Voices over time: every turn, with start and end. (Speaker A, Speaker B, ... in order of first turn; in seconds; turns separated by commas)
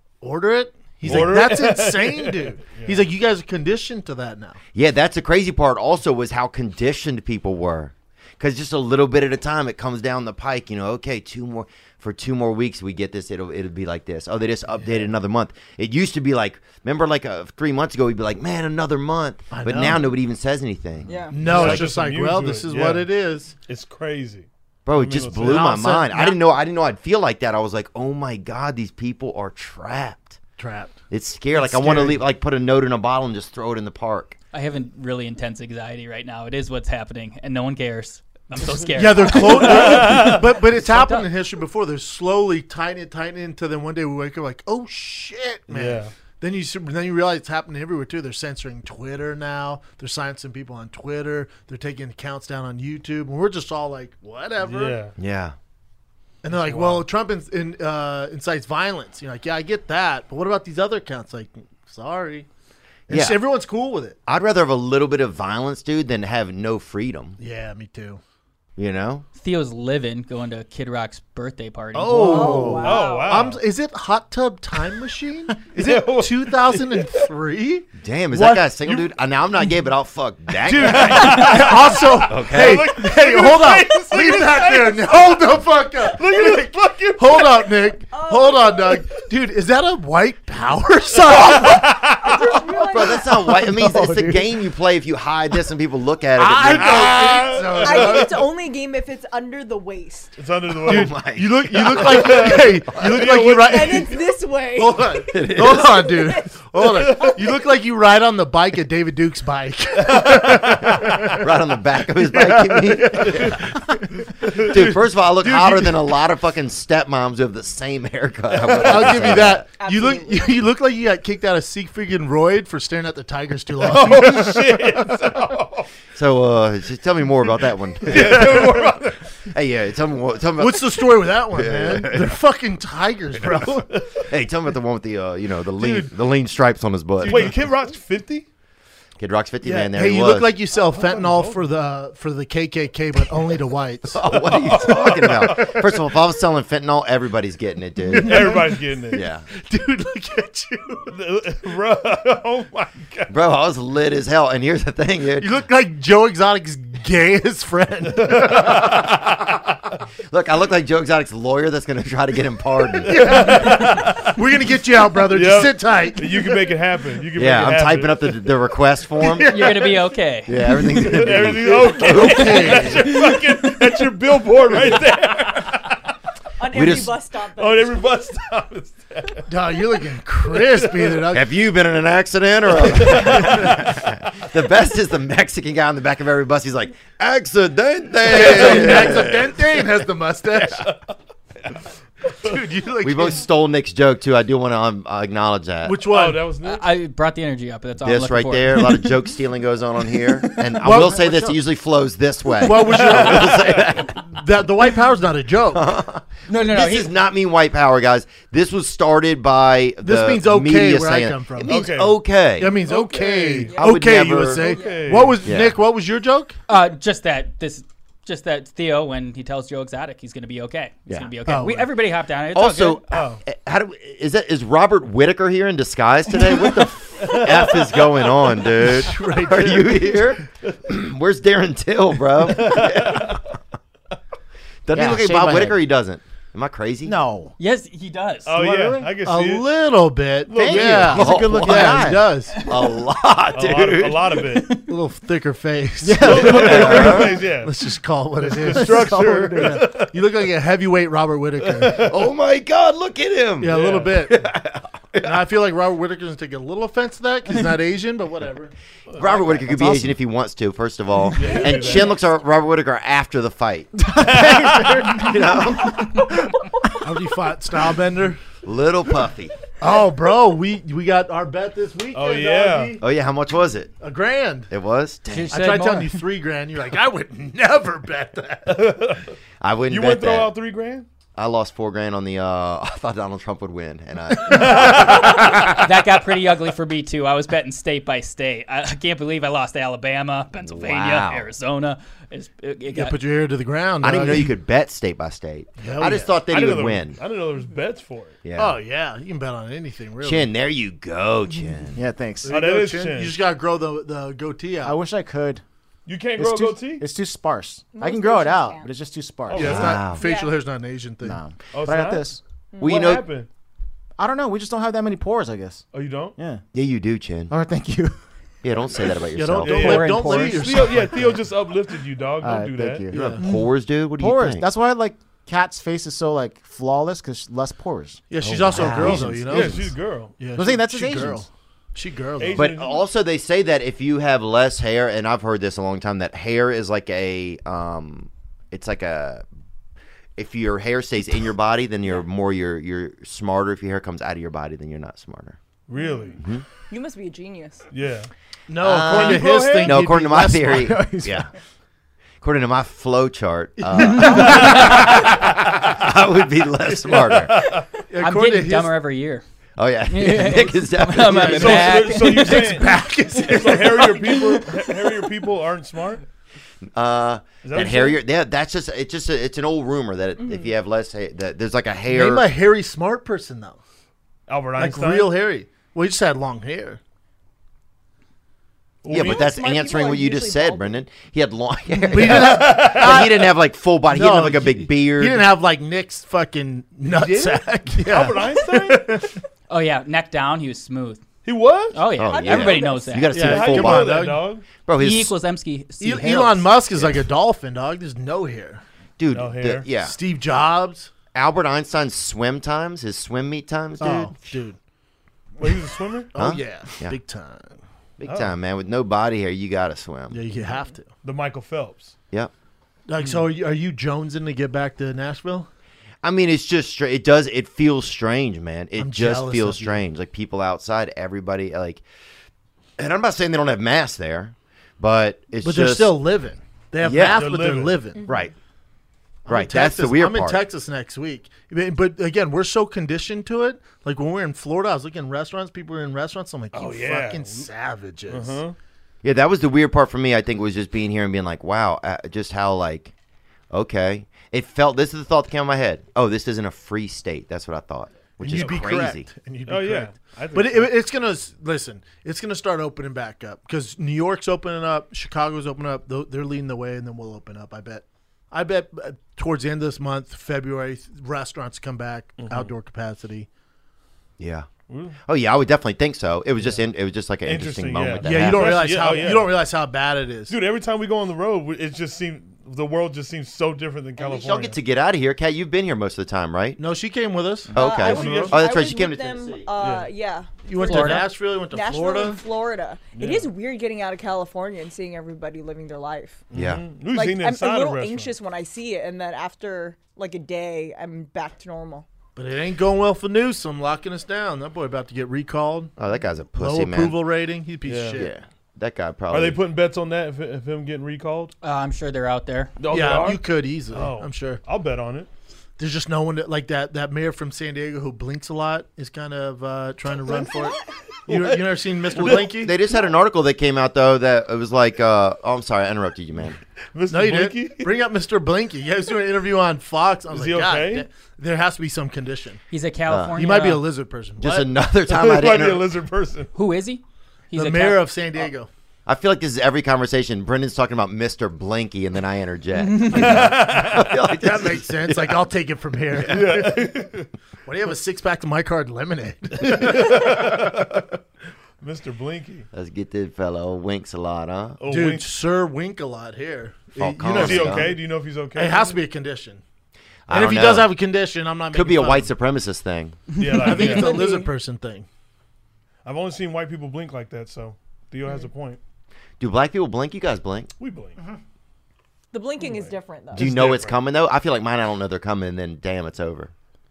Speaker A: 0.2-4.6, Speaker B: 1.0-3.1, Speaker C: 1.1-1.4, Speaker C: 4.7-21.9, Speaker A: 14.8-15.1, Speaker A: 19.5-20.1, Speaker D: 21.1-21.4, Speaker A: 21.3-23.6, Speaker B: 21.4-23.1, Speaker B: 23.7-25.9, Speaker C: 24.9-30.4, Speaker A: 25.4-26.4, Speaker A: 30.6-31.0, Speaker C: 31.1-34.4, Speaker A: 31.6-32.2, Speaker E: 34.5-41.3, Speaker B: 38.7-40.5, Speaker A: 39.0-55.0, Speaker B: 45.7-46.1, Speaker B: 54.6-55.1, Speaker C: 55.2-55.6, Speaker A: 56.4-62.5, Speaker B: 56.5-57.1, Speaker C: 63.1-63.4, Speaker A: 63.1-64.2, Speaker C: 64.3-67.4, Speaker A: 67.4-68.2, Speaker C: 68.8-69.3, Speaker E: 69.4-72.7, Speaker A: 71.9-77.9, Speaker D: 72.3-73.4, Speaker B: 72.5-73.6, Speaker B: 75.7-77.3, Speaker C: 78.0-81.6, Speaker B: 78.3-79.1, Speaker B: 80.6-87.9, Speaker A: 80.7-92.0, Speaker C: 82.3-83.0, Speaker D: 88.1-89.0, Speaker B: 91.3-92.8, Speaker D: 92.2-93.2, Speaker C: 92.9-97.2, Speaker F: 93.4-94.5, Speaker A: 96.4-98.3, Speaker B: 96.6-98.4, Speaker D: 97.8-100.4, Speaker B: 100.4-101.2, Speaker C: 100.8-102.5, Speaker A: 100.8-104.2, Speaker B: 101.8-104.1, Speaker D: 103.4-107.3, Speaker A: 104.8-111.5, Speaker C: 105.3-106.1, Speaker B: 110.0-111.4, Speaker C: 111.4-113.8, Speaker A: 112.3-113.9, Speaker B: 113.2-113.6, Speaker B: 114.4-115.8, Speaker C: 114.5-119.7, Speaker A: 115.5-115.9, Speaker B: 118.7-118.9, Speaker A: 118.8-125.2, Speaker D: 119.8-120.5, Speaker B: 123.8-125.9, Speaker C: 126.2-132.3, Speaker B: 128.0-129.2, Speaker A: 128.1-128.7, Speaker A: 130.6-133.9, Speaker B: 133.9-134.2, Speaker C: 134.2-137.6, Speaker A: 135.8-136.1, Speaker A: 137.2-137.5, Speaker B: 137.2-138.5, Speaker C: 139.2-140.6, Speaker A: 139.6-144.2, Speaker B: 140.7-141.7, Speaker C: 144.1-149.4, Speaker B: 144.3-146.0, Speaker A: 148.1-148.8, Speaker B: 148.1-149.2, Speaker A: 149.5-151.1, Speaker B: 151.1-153.3, Speaker C: 153.3-155.6, Speaker A: 155.4-159.1, Speaker B: 158.2-159.6, Speaker C: 160.3-163.2, Speaker A: 163.1-166.5, Speaker B: 163.1-164.3, Speaker B: 165.3-168.5, Speaker C: 167.3-169.6, Speaker A: 169.4-169.7, Speaker E: 169.5-171.0, Speaker C: 170.5-173.0, Speaker B: 171.0-176.0, Speaker A: 171.9-173.1, Speaker D: 176.6-178.1, Speaker C: 176.7-177.1, Speaker B: 177.6-179.4, Speaker A: 179.5-181.5, Speaker B: 180.5-181.2, Speaker C: 181.3-189.5, Speaker B: 182.8-184.2, Speaker A: 188.2-190.8, Speaker B: 188.5-189.3, Speaker A: 192.4-193.4, Speaker C: 193.0-196.0, Speaker A: 195.8-196.5, Speaker B: 196.1-196.9, Speaker E: 196.6-199.1, Speaker C: 198.0-204.2, Speaker A: 200.8-201.3, Speaker F: 200.9-201.6, Speaker A: 202.6-205.8, Speaker B: 203.0-204.0, Speaker C: 205.7-212.7, Speaker E: 206.5-207.1, Speaker A: 210.0-211.8, Speaker B: 211.7-212.2, Speaker A: 212.6-216.6, Speaker B: 212.7-213.8, Speaker D: 213.7-213.9, Speaker C: 213.8-214.7, Speaker D: 214.5-215.2, Speaker B: 214.7-215.4, Speaker C: 215.4-215.8, Speaker E: 216.7-223.0, Speaker A: 221.5-221.9, Speaker C: 222.5-233.4, Speaker B: 223.1-223.4, Speaker B: 227.2-228.1, Speaker A: 228.8-230.1, Speaker B: 232.4-233.4, Speaker C: 234.9-237.2, Speaker F: 234.9-235.8, Speaker F: 237.1-237.6, Speaker E: 237.6-238.5, Speaker B: 238.5-239.7, Speaker F: 238.5-239.2, Speaker A: 239.2-242.6, Speaker B: 240.5-241.3, Speaker F: 240.6-242.3, Speaker C: 240.6-244.3, Speaker E: 242.6-243.0, Speaker B: 243.5-244.8, Speaker E: 244.5-244.8, Speaker A: 244.9-252.1, Speaker F: 246.0-247.3, Speaker B: 246.2-247.7, Speaker C: 246.5-247.3, Speaker F: 248.4-249.9, Speaker B: 248.6-250.1, Speaker B: 251.7-252.2, Speaker C: 252.0-255.3, Speaker A: 253.6-254.5, Speaker B: 253.7-254.2, Speaker A: 255.2-260.1, Speaker C: 259.1-266.3, Speaker B: 261.4-262.2, Speaker F: 264.0-265.6, Speaker B: 264.2-265.3, Speaker A: 267.0-268.4, Speaker C: 268.6-269.5, Speaker A: 269.8-273.0, Speaker B: 272.1-273.0, Speaker C: 273.0-273.9, Speaker A: 274.0-274.7, Speaker C: 274.7-275.6, Speaker E: 275.3-276.2, Speaker A: 275.5-279.0, Speaker B: 278.7-279.4, Speaker C: 279.6-280.6, Speaker B: 279.9-281.1, Speaker C: 281.4-285.6, Speaker B: 284.5-285.4, Speaker A: 284.7-285.3, Speaker E: 285.7-293.2, Speaker C: 290.6-291.5, Speaker A: 292.9-294.5, Speaker C: 294.0-297.2, Speaker A: 295.8-296.3, Speaker B: 296.5-298.4, Speaker C: 298.4-298.8, Speaker A: 298.6-300.5, Speaker C: 300.2-302.0, Speaker F: 301.9-302.6, Speaker A: 302.4-304.9, Speaker B: 302.5-303.4, Speaker F: 304.8-305.6, Speaker B: 306.1-307.0, Speaker F: 306.4-310.0, Speaker D: 307.9-308.9, Speaker B: 309.5-309.9, Speaker A: 309.5-311.4, Speaker C: 309.6-310.2, Speaker D: 310.1-310.6, Speaker F: 311.2-312.4, Speaker B: 311.7-313.5, Speaker C: 312.8-313.2, Speaker F: 314.2-316.6, Speaker B: 315.9-316.4, Speaker C: 316.7-317.5, Speaker F: 317.5-318.2, Speaker C: 318.6-320.1, Speaker A: 319.3-321.3, Speaker B: 319.6-323.1, Speaker F: 319.8-321.4, Speaker E: 320.2-320.6, Speaker F: 322.4-330.0, Speaker A: 323.1-323.5, Speaker C: 323.4-324.6, Speaker A: 328.3-332.7, Speaker C: 328.6-329.6, Speaker B: 329.4-330.5, Speaker F: 330.5-331.5, Speaker B: 332.4-333.0, Speaker C: 332.5-339.4, Speaker C: 340.4-345.6, Speaker B: 345.9-346.4, Speaker D: 346.0-346.3, Speaker D: 346.9-347.9, Speaker B: 347.9-348.3, Speaker A: 348.7-350.9, Speaker C: 348.8-351.5, Speaker B: 349.0-350.1, Speaker F: 350.7-351.5, Speaker C: 352.4-357.5, Speaker A: 354.0-354.9, Speaker B: 354.3-354.9, Speaker B: 356.9-357.9, Speaker A: 358.1-358.9, Speaker E: 358.2-359.4, Speaker C: 359.8-362.0, Speaker E: 360.1-362.7, Speaker B: 361.4-366.2, Speaker A: 361.6-364.7, Speaker C: 366.9-372.5, Speaker B: 367.6-368.2, Speaker D: 370.4-370.7, Speaker A: 372.1-373.8, Speaker B: 374.5-375.4, Speaker A: 374.8-377.0, Speaker B: 379.0-379.5, Speaker C: 379.1-385.5, Speaker D: 379.1-381.0, Speaker A: 382.1-383.5, Speaker B: 382.2-383.3, Speaker A: 384.1-389.4, Speaker B: 387.1-389.3, Speaker E: 389.7-391.2, Speaker B: 391.4-392.1, Speaker E: 391.9-393.4, Speaker C: 392.1-394.2, Speaker D: 392.2-393.2, Speaker A: 393.3-394.5, Speaker B: 393.3-394.7, Speaker C: 394.9-395.4, Speaker E: 395.0-396.7, Speaker A: 396.0-398.8, Speaker C: 399.2-400.1, Speaker B: 399.3-399.9, Speaker A: 400.0-401.1, Speaker C: 401.3-404.5, Speaker A: 404.0-404.8, Speaker B: 405.6-406.3, Speaker A: 406.3-407.8, Speaker C: 406.4-407.2, Speaker C: 408.2-410.4, Speaker B: 408.3-408.5, Speaker A: 410.3-411.1, Speaker B: 411.2-412.2, Speaker A: 413.1-415.7, Speaker C: 416.2-422.0, Speaker A: 419.0-420.0, Speaker C: 423.0-426.2, Speaker A: 425.6-428.2, Speaker C: 427.0-427.5, Speaker B: 427.4-428.1, Speaker C: 428.3-428.5, Speaker A: 429.5-438.6, Speaker C: 429.5-430.6, Speaker B: 436.7-437.7, Speaker B: 438.3-438.8, Speaker C: 439.2-443.1, Speaker C: 443.7-449.3, Speaker A: 448.4-463.5, Speaker B: 448.6-448.9, Speaker B: 449.7-450.9, Speaker B: 462.4-462.7, Speaker C: 464.4-464.7, Speaker B: 464.9-465.2, Speaker C: 465.3-468.9, Speaker B: 467.4-469.6, Speaker A: 468.2-470.6, Speaker B: 470.5-474.8, Speaker C: 474.2-476.8, Speaker A: 476.8-478.5, Speaker C: 477.7-479.7, Speaker D: 477.8-486.4, Speaker B: 477.8-478.6, Speaker B: 479.8-480.1, Speaker A: 480.6-482.4, Speaker E: 480.8-481.3, Speaker B: 483.1-483.5, Speaker B: 486.5-488.3, Speaker C: 486.5-486.9, Speaker D: 487.1-492.1, Speaker A: 492.4-495.9, Speaker C: 496.0-497.2, Speaker A: 496.6-498.3, Speaker B: 497.9-498.2, Speaker C: 498.2-499.6, Speaker B: 499.3-501.5, Speaker E: 501.6-502.8, Speaker B: 502.8-505.3, Speaker A: 502.9-504.6, Speaker A: 505.8-510.8, Speaker A: 511.3-512.7, Speaker B: 511.3-511.6, Speaker C: 512.2-516.6, Speaker B: 512.2-512.4, Speaker B: 517.0-517.9, Speaker A: 517.1-522.6, Speaker B: 520.3-521.1, Speaker E: 522.7-523.9, Speaker C: 523.1-523.4, Speaker A: 523.4-524.7, Speaker C: 524.4-525.9, Speaker B: 525.1-526.5, Speaker E: 526.6-528.1, Speaker A: 527.5-528.7, Speaker C: 529.1-535.4, Speaker E: 532.8-533.4, Speaker B: 533.1-534.1, Speaker A: 534.4-536.8, Speaker B: 536.3-537.3, Speaker A: 537.6-540.8, Speaker B: 539.6-541.0, Speaker B: 541.8-542.7, Speaker C: 542.7-544.8, Speaker B: 544.8-545.3, Speaker A: 544.9-548.0, Speaker C: 547.0-547.9, Speaker B: 547.3-549.0, Speaker A: 548.5-549.6, Speaker C: 550.3-550.9, Speaker A: 550.3-552.3, Speaker C: 551.7-553.2, Speaker B: 553.4-554.2, Speaker E: 553.5-554.1, Speaker A: 553.6-555.1, Speaker D: 553.8-554.5, Speaker B: 556.0-558.8, Speaker C: 559.4-560.7, Speaker B: 560.8-561.2, Speaker D: 562.3-563.5, Speaker B: 562.6-564.0, Speaker C: 563.4-566.5